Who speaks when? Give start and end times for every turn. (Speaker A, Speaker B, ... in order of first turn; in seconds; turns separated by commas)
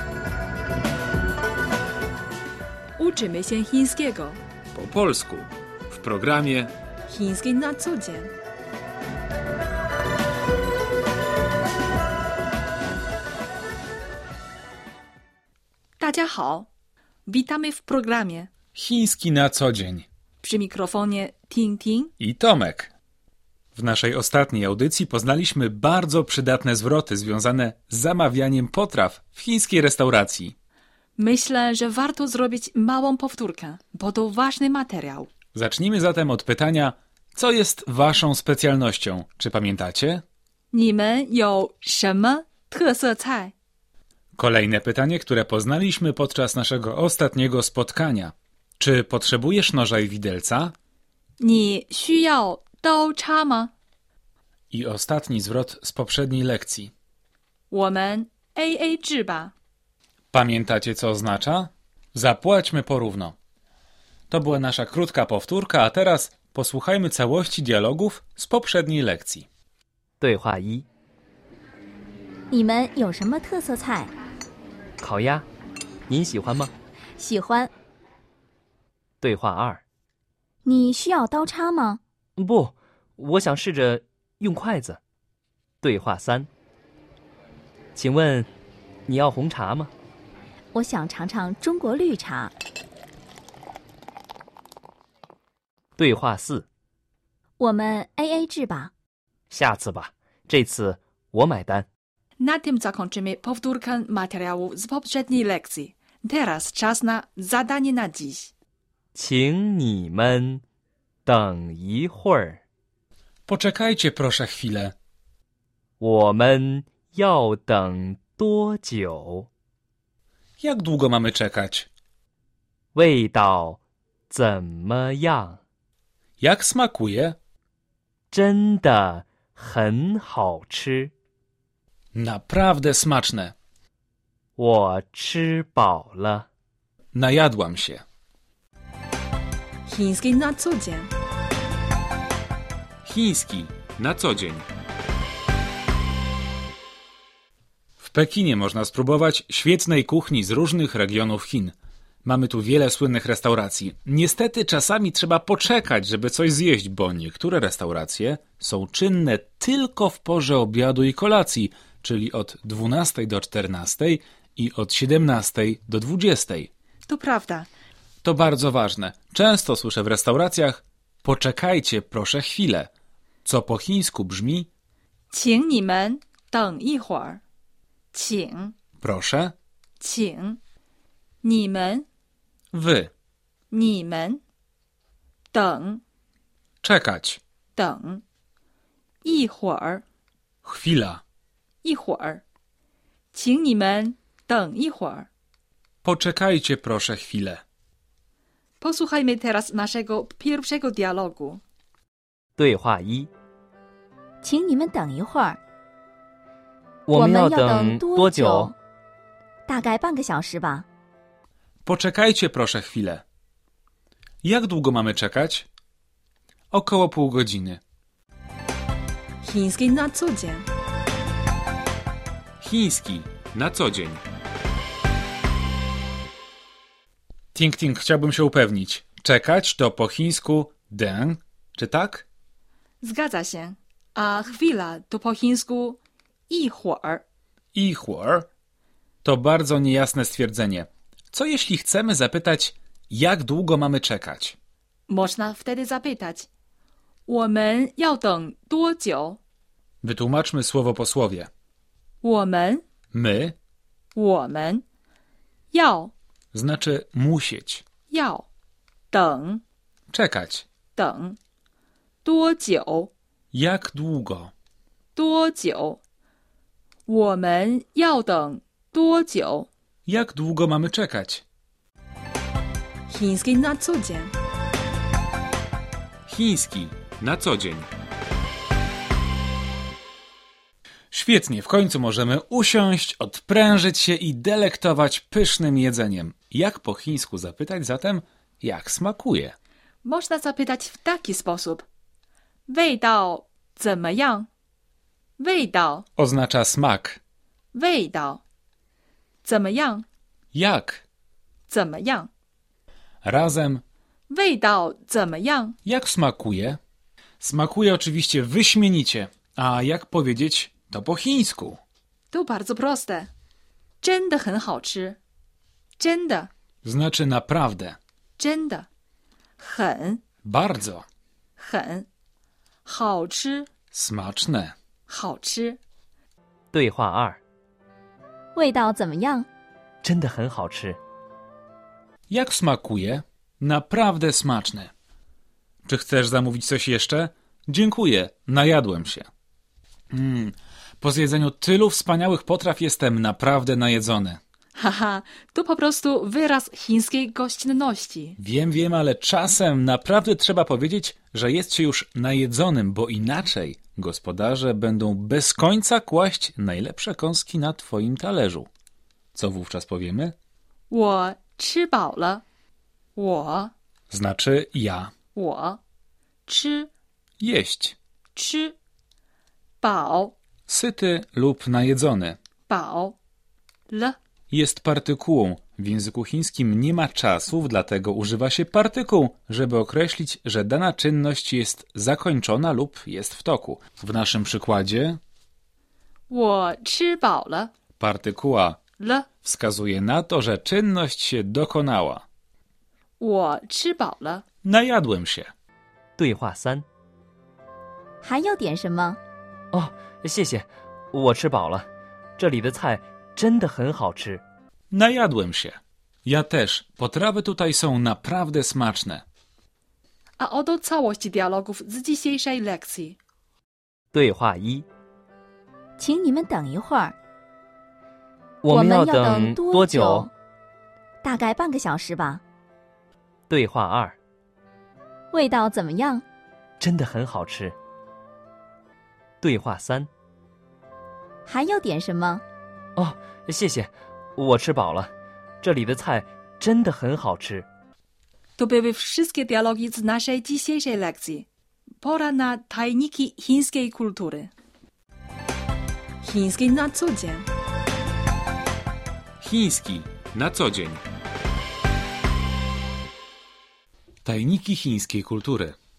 Speaker A: 3.0-4.4, Speaker B: 4.7-6.7, Speaker A: 7.1-8.3, Speaker A: 16.0-16.7, Speaker A: 17.3-18.5, Speaker B: 18.8-20.1, Speaker A: 20.4-22.1, Speaker B: 22.2-22.9, Speaker B: 23.7-30.6, Speaker A: 31.2-35.3, Speaker B: 35.5-40.2, Speaker A: 40.7-43.5, Speaker B: 44.4-50.7, Speaker A: 51.4-53.7, Speaker B: 54.7-56.9, Speaker A: 57.7-59.5, Speaker B: 60.3-63.4, Speaker B: 64.3-69.5, Speaker C: 70.2-70.9, Speaker D: 72.5-74.1, Speaker C: 75.0-75.5, Speaker C: 76.1-76.7, Speaker D: 77.2-77.7, Speaker C: 79.2-79.8, Speaker D: 80.7-82.0, Speaker C: 82.4-85.0, Speaker C: 85.8-86.5, Speaker C: 88.0-88.5, Speaker C: 89.1-89.9, Speaker D: 90.7-92.5, Speaker C: 96.0-96.7, Speaker D: 97.6-98.9, Speaker C: 99.5-101.9, Speaker A: 102.4-108.5, Speaker C: 109.1-110.6, Speaker C: 111.3-112.6, Speaker B: 113.5-115.0, Speaker C: 116.0-119.5, Speaker B: 120.6-121.9, Speaker C: 123.0-125.6, Speaker B: 126.4-127.4, Speaker C: 128.3-131.1, Speaker B: 132.1-133.5, Speaker C: 134.6-136.5, Speaker B: 137.1-138.0, Speaker A: 139.9-141.1, Speaker B: 143.1-144.7, Speaker B: 148.0-166.7, Speaker A: 167.1-167.7, Speaker B: 168.2-172.9, Speaker B: 173.4-174.7, Speaker A: 175.3-177.4, Speaker A: 178.1-178.8, Speaker B: 179.0-179.5, Speaker A: 180.0-180.6, Speaker A: 181.4-182.1, Speaker B: 182.7-183.1, Speaker A: 183.7-184.4, Speaker A: 185.5-186.0, Speaker B: 186.8-187.4, Speaker A: 187.8-188.2, Speaker A: 189.2-190.0, Speaker B: 190.6-191.2, Speaker A: 191.8-192.4, Speaker A: 193.3-195.3, Speaker B: 196.0-197.6, Speaker A: 198.8-201.6, Speaker C: 202.6-203.3, Speaker D: 204.4-205.6, Speaker C: 207.1-208.7, Speaker D: 207.1-208.7, Speaker D: 209.7-210.9, Speaker B: 211.8-213.2, Speaker B: 214.4-215.7, Speaker B: 216.7-217.8, Speaker A: 219.4-220.7, Speaker B: 222.6-224.2, Speaker B: 227.5-232.3, Speaker A: 233.0-237.2, Speaker B: 237.7-238.5, Speaker B: 239.2-244.6, Speaker A: 245.1-246.5, Speaker A: 247.3-249.4, Speaker B: 250.0-251.5, Speaker A: 252.2-252.8, Speaker B: 253.1-253.6, Speaker A: 254.2-254.8, Speaker A: 255.7-256.1, Speaker B: 256.5-257.8, Speaker A: 258.1-258.5, Speaker A: 259.1-259.6, Speaker B: 260.1-260.6, Speaker A: 261.0-261.4, Speaker A: 262.2-263.1, Speaker B: 263.5-264.5, Speaker A: 265.1-266.0, Speaker A: 267.1-269.7, Speaker B: 270.1-271.4, Speaker A: 273.1-274.3, Speaker B: 276.3-277.9, Speaker B: 281.1-289.6, Speaker A: 290.0-291.9, Speaker A: 292.7-294.5, Speaker A: 295.4-296.1, Speaker B: 296.2-297.2, Speaker A: 297.7-298.4, Speaker A: 299.4-300.0, Speaker B: 300.5-301.0, Speaker A: 301.7-302.3, Speaker B: 303.2-303.8, Speaker A: 304.3-305.8, Speaker B: 305.9-306.8, Speaker B: 307.4-311.8, Speaker A: 312.3-313.3, Speaker A: 314.0-315.2, Speaker A: 316.0-316.5, Speaker B: 316.8-318.0, Speaker A: 318.4-318.9, Speaker A: 319.6-320.2, Speaker B: 320.4-321.1, Speaker A: 321.6-322.1, Speaker A: 322.9-323.7, Speaker B: 323.9-324.8, Speaker A: 325.1-325.8, Speaker C: 326.7-327.4, Speaker D: 328.6-329.5, Speaker C: 330.0-331.0, Speaker B: 332.3-334.9, Speaker B: 335.9-339.3, Speaker B: 340.1-344.4, Speaker A: 344.8-348.4, Speaker B: 348.4-358.7, Speaker B: 359.3-360.4, Speaker A: 360.9-362.4, Speaker A: 363.2-363.7, Speaker B: 364.1-365.1, Speaker A: 365.3-365.8, Speaker A: 366.5-366.9, Speaker B: 367.4-368.0, Speaker A: 368.4-368.7, Speaker A: 369.8-370.4, Speaker B: 370.7-372.4, Speaker A: 372.7-373.2, Speaker A: 373.9-374.2, Speaker B: 374.5-385.2, Speaker A: 386.3-387.7, Speaker B: 388.0-388.8, Speaker A: 389.0-389.3, Speaker B: 389.4-392.2, Speaker A: 393.2-394.4, Speaker B: 394.6-395.5, Speaker C: 396.2-396.9, Speaker D: 398.2-399.2, Speaker C: 399.7-401.9, Speaker C: 402.4-404.4, Speaker B: 404.9-409.2, Speaker A: 410.4-413.2, Speaker C: 414.1-414.9, Speaker D: 416.0-417.2, Speaker C: 418.6-420.3, Speaker D: 418.7-420.3, Speaker D: 421.2-422.4, Speaker C: 423.5-424.2, Speaker D: 425.3-426.2, Speaker C: 426.8-427.8, Speaker C: 429.4-430.1, Speaker D: 431.5-432.4, Speaker C: 433.0-437.7, Speaker A: 438.6-441.5, Speaker A: 442.0-444.5, Speaker A: 446.2-447.5, Speaker B: 449.4-451.0, Speaker B: 454.2-455.8